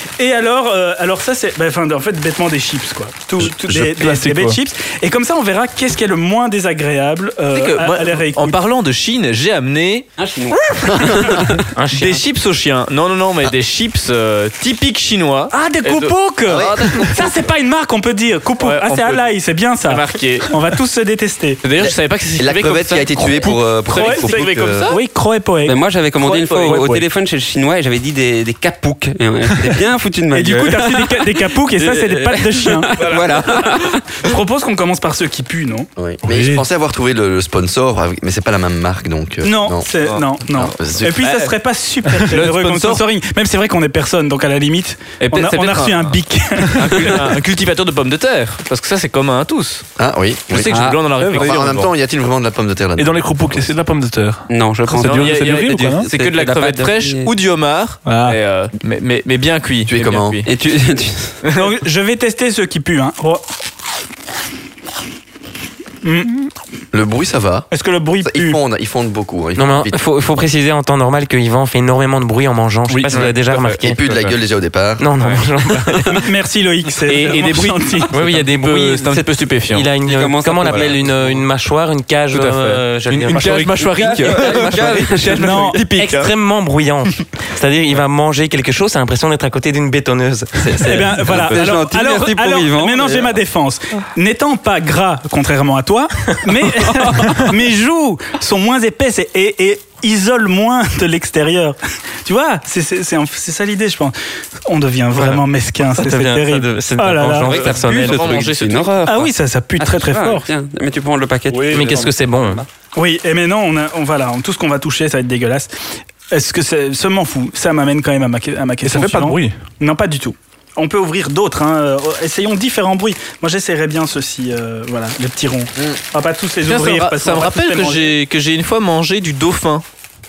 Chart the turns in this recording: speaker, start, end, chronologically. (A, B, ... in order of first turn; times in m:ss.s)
0:00.2-0:08.6 A
0:03.7-0:04.6 B
0:07.5-0:10.1 C
0:10.2-0:11.5 D
0:10.9-0:11.4 E
0:11.8-0:12.2 F
0:11.9-0:17.3 C
0:15.5-0:21.6 A
0:16.5-0:17.1 E
0:18.6-0:19.3 C
0:19.8-0:20.5 C
0:21.6-0:25.0 C
0:21.8-0:24.9 E
0:23.4-0:25.8 A
0:25.7-0:34.0 D
0:26.2-0:27.0 C
0:26.6-0:26.9 A
0:30.3-0:33.0 A
0:33.0-0:33.6 C
0:34.2-0:35.9 A
0:36.0-0:39.9 E
0:36.3-0:36.6 B
0:39.4-0:47.3 A
0:40.0-0:41.6 C
0:40.8-0:41.2 E
0:42.3-0:43.0 C
0:45.2-0:46.2 C
0:46.8-0:49.9 C
0:50.0-0:50.7 E
0:50.5-0:51.9 C
0:50.6-0:51.0 D
0:51.2-0:51.6 B
0:51.3-0:53.7 E
0:53.0-0:56.1 B
0:54.5-0:57.3 D
0:55.0-1:00.5 C
0:59.9-1:00.4 E
1:00.4-1:01.4 D
1:01.5-1:03.4 A
1:06.0-1:06.3 A
1:06.9-1:07.7 E
1:07.7-1:08.6 A
1:08.2-1:10.0 E
1:09.6-1:14.3 F
1:13.0-1:14.2 C
1:13.8-1:15.1 E
1:15.0-1:16.2 F
1:16.2-1:18.1 A
1:17.0-1:19.9 C
1:18.1-1:19.2 F
1:19.7-1:24.8 F
1:20.0-1:21.4 D
1:22.3-1:26.3 C
1:23.8-1:25.8 D
1:25.3-1:25.8 A
1:26.0-1:31.2 F
1:30.8-1:44.1 A
1:30.9-1:33.3 D
1:44.7-1:47.6 A
1:45.2-1:45.4 F
1:46.0-1:48.5 F
1:47.4-1:49.0 D
1:47.5-1:49.3 C
1:49.1-1:50.5 A
1:49.8-1:51.9 D
1:51.5-1:52.1 B
1:51.7-1:52.6 F
1:53.0-1:55.7 A
1:56.3-2:08.1 A
1:58.8-1:59.6 B
2:06.6-2:09.8 C